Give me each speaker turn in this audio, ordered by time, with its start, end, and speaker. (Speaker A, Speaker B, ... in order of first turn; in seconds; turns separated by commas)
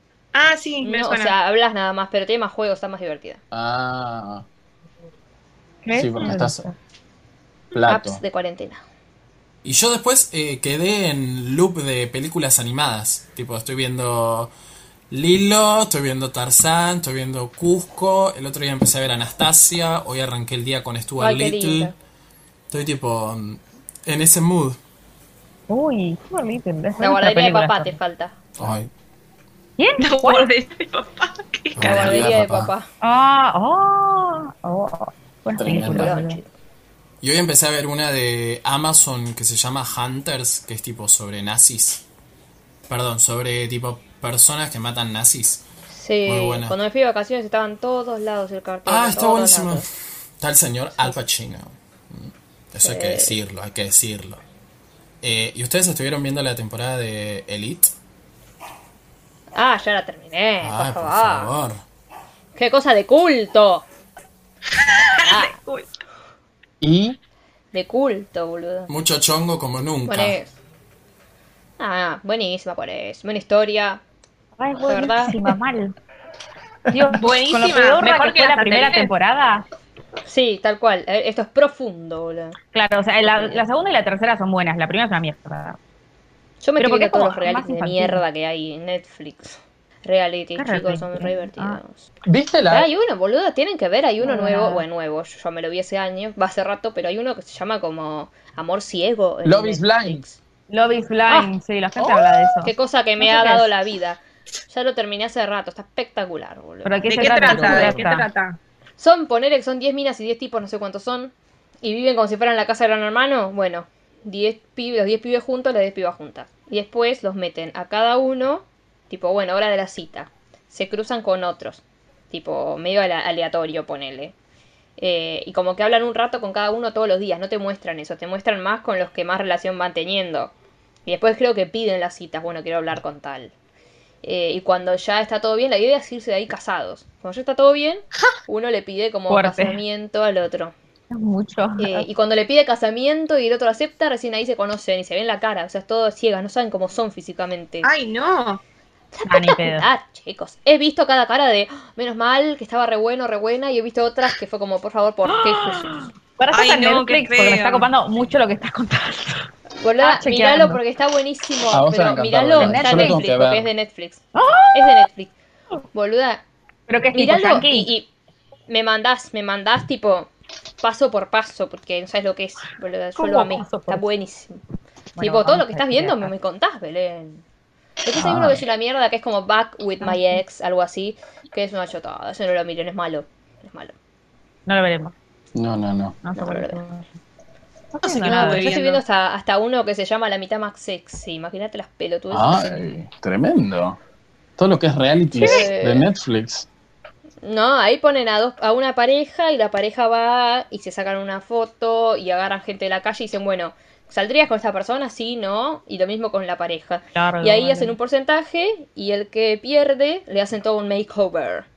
Speaker A: 0.3-1.4, Speaker B: 0.8-3.4, Speaker C: 3.5-4.5, Speaker D: 5.8-6.8, Speaker C: 5.9-6.7, Speaker C: 7.7-8.2, Speaker B: 7.9-8.8, Speaker E: 9.6-14.5, Speaker E: 15.1-21.9, Speaker B: 21.2-21.9, Speaker E: 22.7-24.8, Speaker D: 25.7-28.0, Speaker B: 27.0-28.4, Speaker E: 28.6-28.9, Speaker D: 29.8-30.5, Speaker A: 30.0-32.2, Speaker E: 31.8-32.7, Speaker B: 31.8-32.9, Speaker D: 33.0-36.4, Speaker C: 35.6-36.1, Speaker B: 35.8-36.5, Speaker E: 37.2-42.0, Speaker E: 42.9-45.6, Speaker B: 45.9-49.9, Speaker E: 46.3-46.8, Speaker E: 48.9-49.9, Speaker E: 50.4-54.4, Speaker B: 52.8-53.4, Speaker E: 55.2-57.9, Speaker B: 59.5-61.5, Speaker E: 60.6-61.8, Speaker B: 62.5-63.9, Speaker A: 64.8-65.9, Speaker B: 65.2-65.6, Speaker C: 66.8-67.2, Speaker B: 67.7-68.9, Speaker E: 68.9-70.4, Speaker B: 70.1-70.5, Speaker B: 71.8-74.0, Speaker D: 74.6-75.9, Speaker B: 74.9-75.4, Speaker D: 76.9-79.7, Speaker A: 77.1-79.1, Speaker B: 80.3-82.6, Speaker D: 82.7-85.8, Speaker B: 83.2-83.6, Speaker B: 86.6-92.0, Speaker D: 86.8-88.2, Speaker D: 90.6-91.8, Speaker C: 92.3-92.9, Speaker B: 92.7-100.4, Speaker D: 94.2-94.8, Speaker C: 99.5-100.2, Speaker D: 100.7-103.7, Speaker C: 102.0-102.4, Speaker B: 102.6-108.0, Speaker D: 106.8-108.3, Speaker A: 107.0-108.6, Speaker C: 107.5-108.0, Speaker B: 109.0-124.3, Speaker B: 125.0-130.5, Speaker B: 131.1-133.5, Speaker B: 134.2-140.7, Speaker D: 139.3-139.8, Speaker D: 141.1-142.1, Speaker B: 141.8-147.9, Speaker A: 147.8-148.6, Speaker B: 149.1-155.9, Speaker D: 149.3-149.9, Speaker D: 155.3-160.8, Speaker A: 156.5-157.9, Speaker B: 159.8-164.2, Speaker C: 161.7-163.7, Speaker D: 162.6-163.3, Speaker D: 164.3-165.1, Speaker B: 164.7-165.3, Speaker B: 165.9-166.4, Speaker D: 166.9-167.9, Speaker B: 167.1-168.1, Speaker B: 168.7-170.3, Speaker B: 170.8-174.6, Speaker D: 173.2-174.1, Speaker D: 175.2-176.3, Speaker B: 175.2-177.4, Speaker B: 178.0-183.9, Speaker C: 178.2-178.6, Speaker D: 180.0-180.4, Speaker D: 184.7-185.1, Speaker C: 185.6-186.2, Speaker D: 186.2-187.1, Speaker B: 186.4-186.8, Speaker D: 187.9-188.7, Speaker A: 188.0-189.0, Speaker B: 188.2-192.8, Speaker C: 192.3-194.0, Speaker C: 194.6-196.7, Speaker B: 195.3-196.1, Speaker D: 195.4-195.7, Speaker B: 197.4-211.7, Speaker D: 207.2-208.0